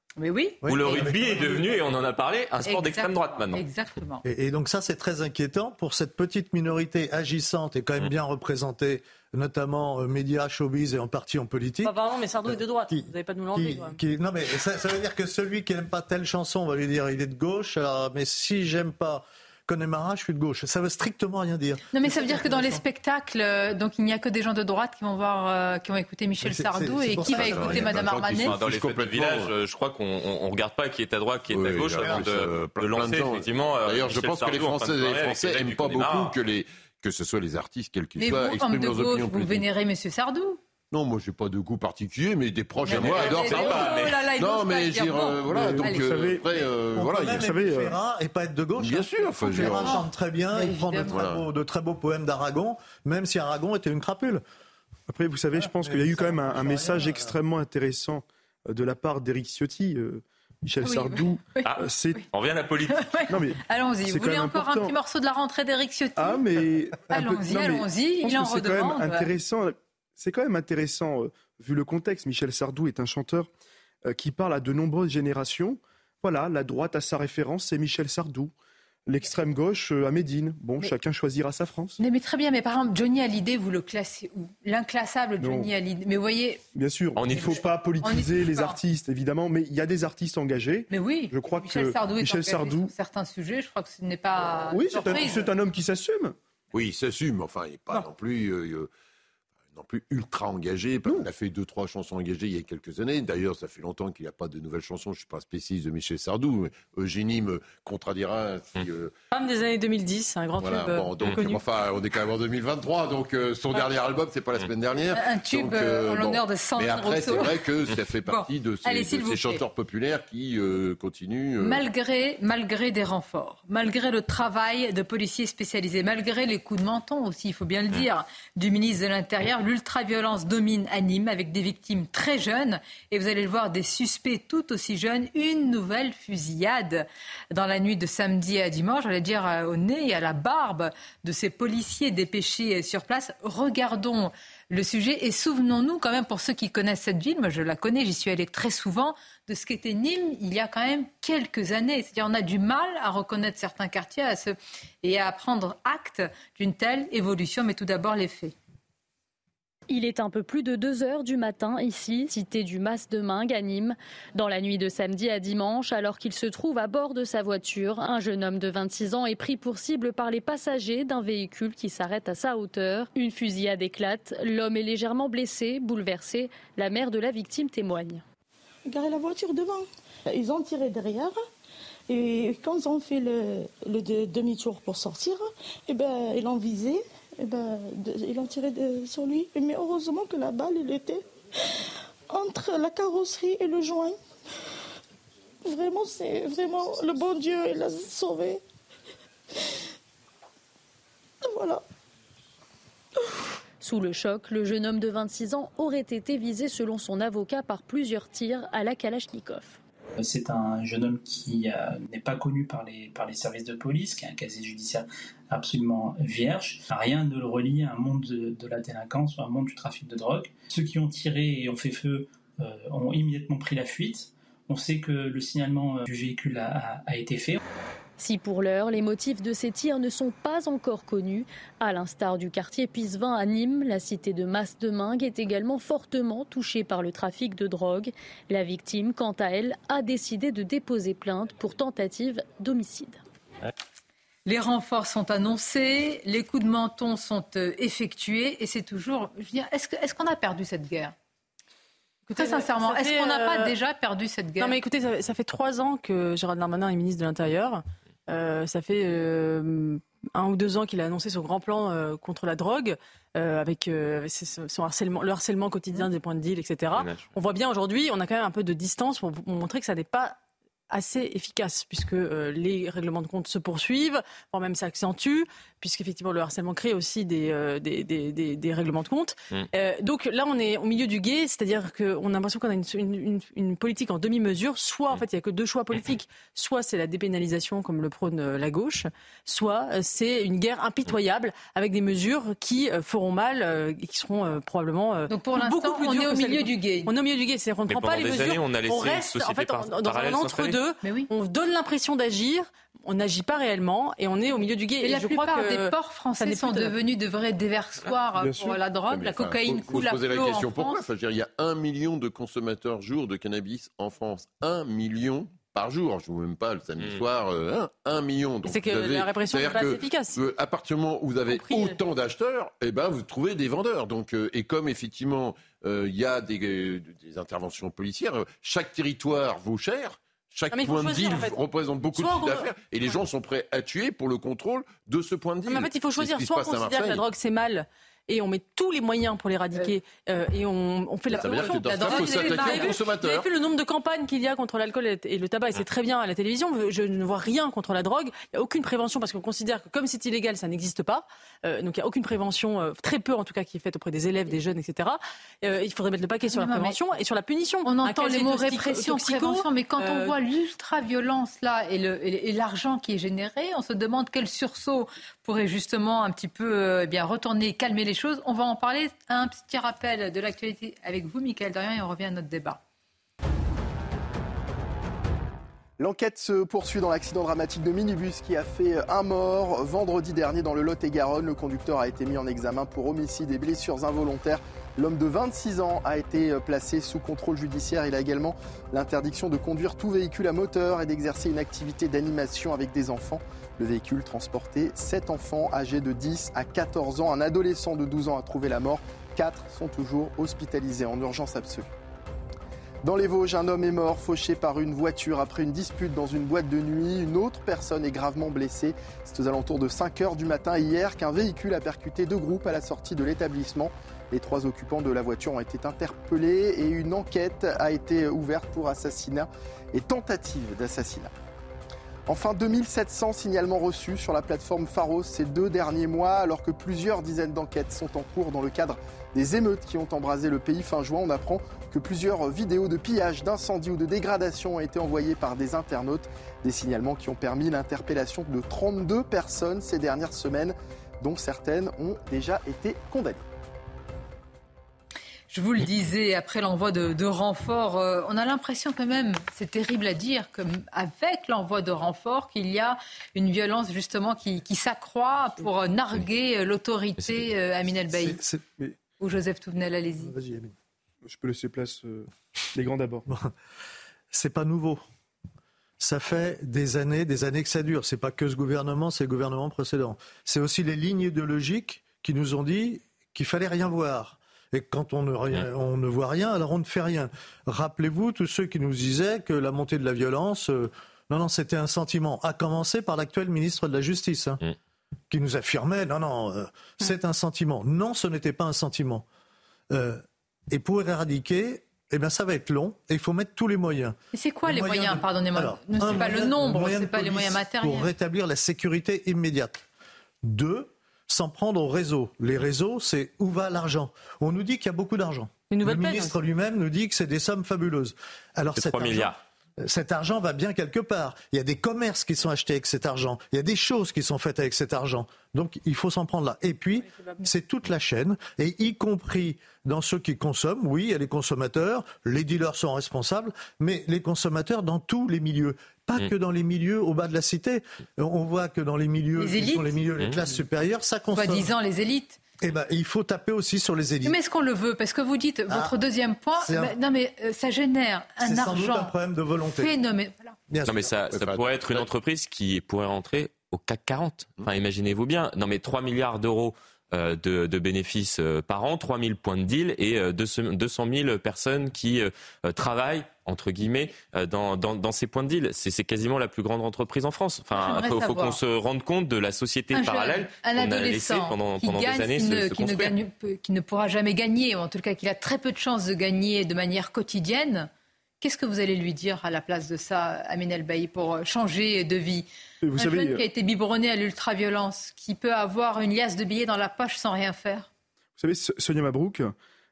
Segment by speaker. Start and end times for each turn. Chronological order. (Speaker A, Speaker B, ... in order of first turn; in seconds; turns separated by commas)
Speaker A: 0.2-1.1, Speaker B: 0.6-1.8, Speaker C: 0.7-3.6, Speaker A: 2.6-4.2, Speaker B: 4.2-11.9, Speaker D: 11.8-14.0, Speaker B: 12.4-22.8, Speaker A: 21.9-28.5, Speaker B: 26.4-28.1, Speaker E: 27.3-29.5, Speaker C: 28.3-36.4, Speaker E: 31.5-39.7, Speaker A: 38.2-40.6, Speaker E: 40.9-47.5, Speaker A: 42.8-46.2, Speaker C: 42.9-44.2, Speaker F: 45.5-46.6, Speaker B: 46.9-54.4, Speaker F: 47.4-48.0, Speaker E: 48.8-50.0, Speaker A: 49.5-51.2, Speaker E: 51.1-51.4, Speaker F: 55.1-62.2, Speaker B: 55.5-57.3, Speaker A: 60.8-62.2, Speaker C: 61.6-63.1, Speaker A: 62.9-66.4, Speaker F: 63.3-65.0, Speaker F: 66.2-73.5, Speaker A: 67.1-69.3, Speaker F: 74.0-78.5, Speaker F: 79.0-82.0, Speaker A: 82.0-86.6, Speaker F: 85.4-85.7, Speaker F: 86.7-92.9, Speaker C: 87.2-87.6, Speaker A: 87.2-88.8, Speaker A: 90.9-95.5, Speaker F: 94.7-96.3, Speaker E: 96.7-98.9, Speaker E: 99.7-109.1, Speaker D: 109.3-111.6, Speaker E: 110.6-121.8, Speaker A: 115.1-117.6, Speaker A: 118.2-119.6, Speaker A: 121.6-158.5, Speaker G: 159.9-178.2, Speaker H: 178.9-181.3, Speaker H: 182.1-191.2, Speaker H: 192.3-194.2, Speaker H: 195.6-198.6, Speaker H: 201.4-201.8, Speaker G: 203.8-209.8, Speaker I: 210.2-227.6, Speaker G: 228.2-243.2, Speaker A: 244.4-251.1, Speaker D: 252.3-253.7, Speaker A: 252.3-254.8, Speaker D: 254.6-270.4, Speaker C: 266.9-267.3, Speaker D: 270.9-306.9, Speaker A: 295.3-297.1, Speaker C: 297.9-300.8, Speaker A: 301.0-301.3, Speaker A: 305.0-311.0, Speaker F: 308.4-308.8, Speaker E: 309.1-337.2, Speaker C: 317.0-317.2, Speaker D: 318.6-320.4, Speaker D: 321.5-322.0, Speaker D: 330.7-331.6, Speaker D: 332.1-332.7, Speaker D: 335.7-360.3, Speaker A: 341.3-343.0, Speaker E: 341.4-343.4, Speaker A: 356.5-357.0, Speaker A: 357.8-372.8, Speaker J: 376.0-401.9, Speaker J: 403.0-421.3, Speaker J: 422.3-443.5, Speaker A: 445.5-458.4, Speaker B: 458.1-458.6, Speaker A: 459.2-460.4, Speaker B: 460.4-460.7, Speaker F: 461.2-463.2, Speaker B: 464.3-465.0, Speaker B: 466.0-484.6, Speaker B: 485.3-489.2, Speaker B: 489.9-499.8, Speaker A: 494.3-498.1, Speaker B: 500.4-531.7, Speaker D: 505.7-506.3, Speaker C: 508.7-509.4, Speaker A: 529.4-529.9, Speaker A: 531.3-532.4, Speaker B: 532.6-534.4, Speaker A: 534.2-539.1, Speaker B: 535.7-535.9, Speaker B: 536.6-536.9, Speaker B: 538.4-539.9, Speaker A: 539.8-540.6, Speaker B: 540.7-541.1, Speaker C: 540.9-563.1, Speaker E: 541.3-542.0, Speaker A: 557.7-558.6, Speaker A: 559.9-567.9, Speaker A: 568.4-577.9, Speaker F: 572.8-573.4, Speaker F: 578.4-579.5